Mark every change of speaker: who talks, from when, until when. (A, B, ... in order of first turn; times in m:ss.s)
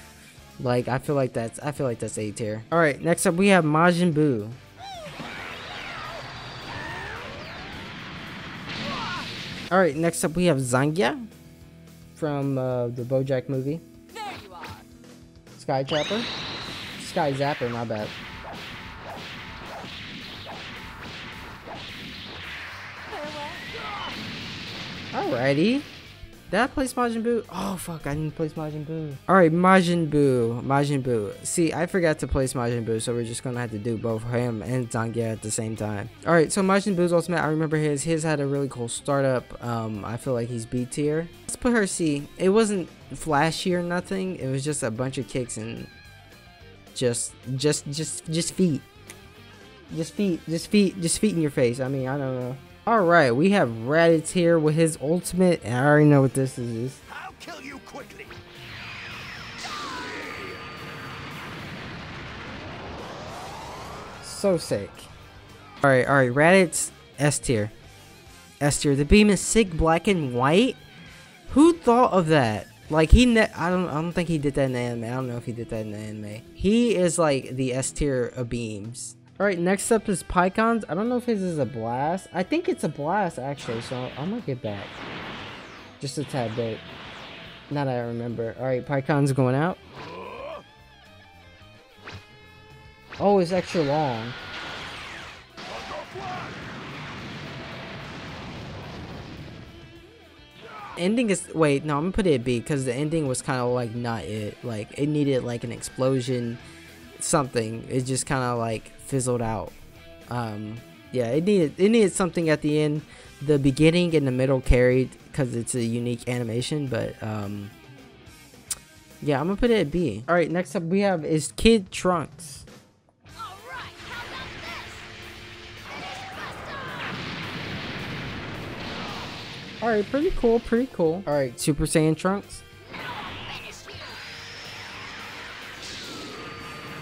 0:00.6-0:04.6 A
0:09.7-0:11.2 A
0:12.1-0:13.8 A
0:14.1-0:14.8 B
0:15.5-0:16.3 A
0:17.0-0:18.1 A
0:23.1-0:23.7 B
0:25.1-0:25.9 A
0:26.5-0:45.9 A
0:46.9-0:48.9 A
0:49.9-0:57.0 A
0:57.1-0:58.4 C
0:59.7-1:00.6 C
1:04.2-1:05.1 A
1:05.8-1:07.7 A
1:08.6-1:10.8 A
1:11.5-1:24.9 A
1:26.0-1:26.8 A
1:27.7-1:29.8 A
1:30.0-1:30.6 C
1:33.2-1:34.4 A
1:35.7-1:36.7 C
1:41.0-1:46.6 A
1:47.2-1:49.7 A
1:50.3-1:57.7 A
1:59.2-2:02.6 A
2:03.4-2:05.1 B
2:05.9-2:07.2 B
2:09.8-2:12.6 A
2:12.8-2:14.2 B